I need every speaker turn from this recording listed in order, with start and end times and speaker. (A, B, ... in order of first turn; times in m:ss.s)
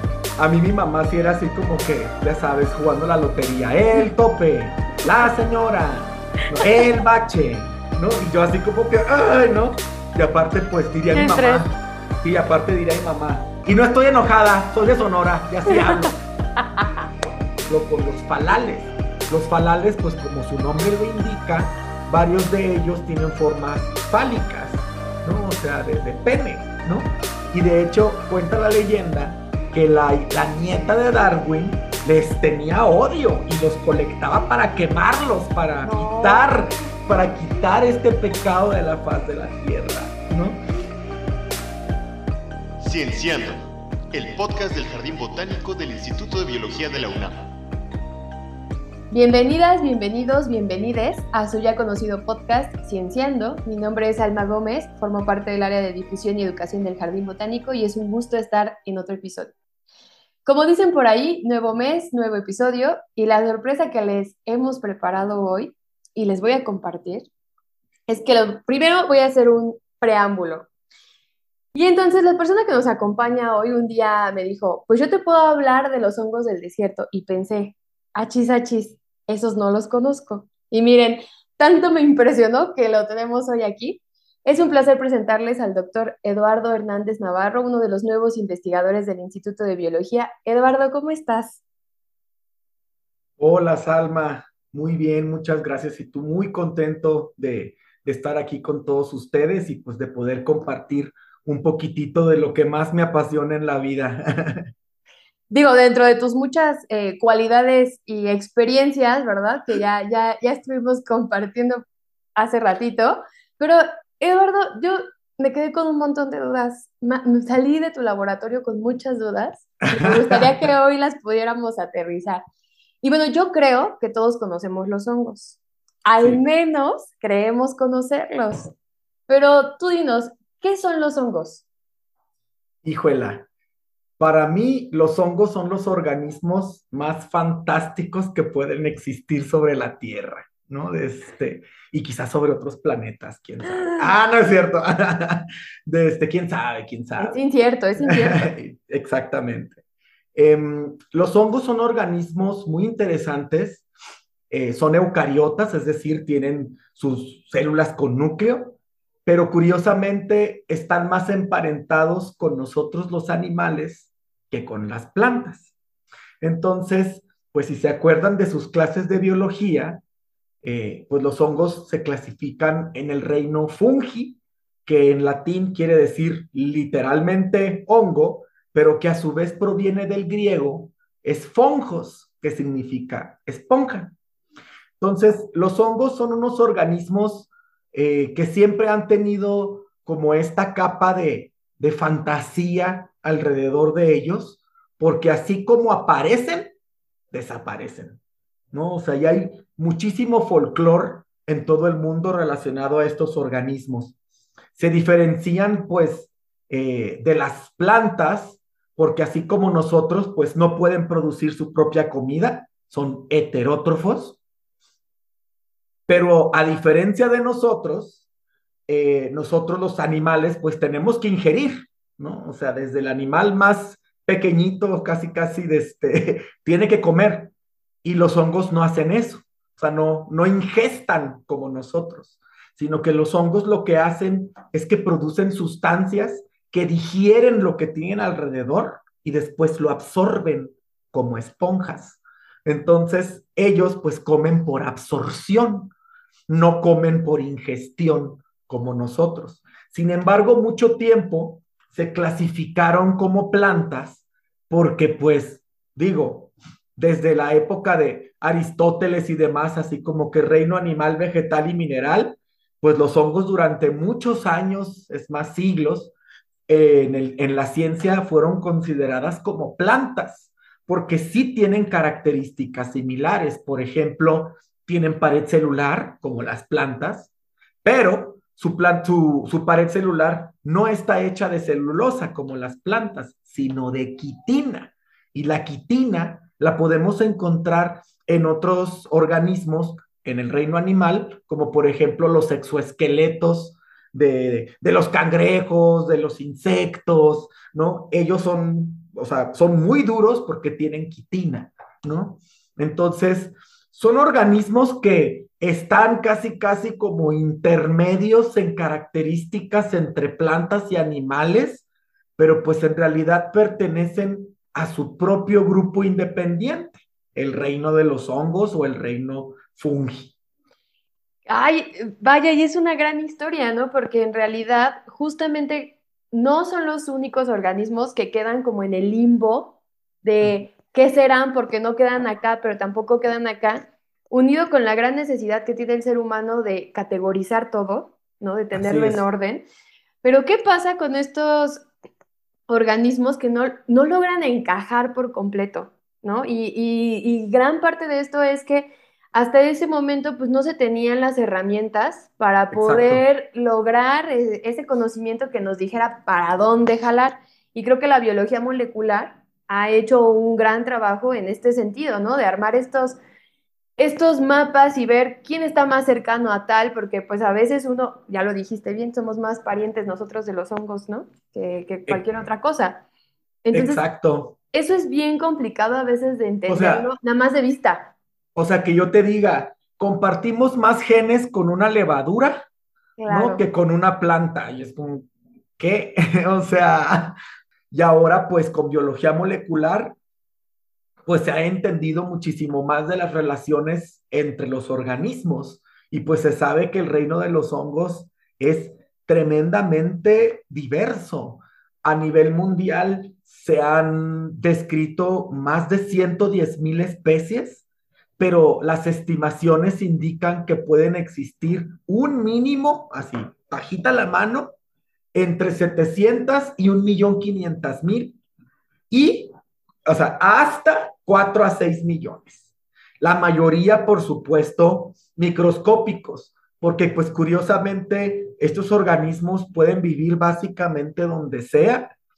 0:00.4-0:16.2 A
0:11.1-0:11.6 B
0:15.7-0:17.0 B
0:17.7-0:40.6 A
0:35.8-0:36.6 B
0:42.8-0:47.5 C
0:49.1-0:59.5 B
1:00.4-1:07.3 B
1:08.1-1:10.7 B
1:11.7-1:31.6 B
1:33.4-1:44.7 A
1:45.5-1:51.8 B
1:52.4-2:02.4 B
1:59.8-2:00.7 A
2:03.0-2:08.7 B
2:09.3-2:11.6 B
2:12.8-2:13.5 A
2:14.2-2:27.4 A
2:23.8-2:24.1 B
2:27.2-2:28.5 B
2:28.0-2:29.8 A
2:30.4-2:33.8 A
2:34.5-2:45.7 A
2:46.4-2:50.0 A
2:50.6-3:04.1 A
3:05.0-3:16.7 A
3:17.3-3:18.2 A
3:18.7-3:24.2 A
3:24.7-3:34.4 A
3:36.1-3:38.2 A
3:38.9-3:47.5 A
3:48.0-4:05.9 A
4:06.5-4:26.1 A
4:26.7-4:37.3 A
4:37.8-5:11.8 A
5:12.4-5:20.3 A
5:21.5-5:39.6 B
5:38.7-5:39.2 A
5:40.2-5:41.8 B
5:42.7-6:03.2 B
5:52.7-5:53.2 A
6:04.0-6:13.0 B
6:13.6-6:14.0 B
6:13.7-6:14.6 A
6:14.7-6:18.1 B
6:16.7-6:17.1 A
6:18.6-6:22.7 A
6:23.2-6:23.6 B
6:23.3-6:27.4 A
6:27.9-6:30.2 A
6:31.3-6:47.8 A
6:48.4-6:54.7 A
6:55.3-6:58.4 A
6:59.1-6:59.5 A
7:00.1-7:02.7 A
7:03.2-7:12.1 A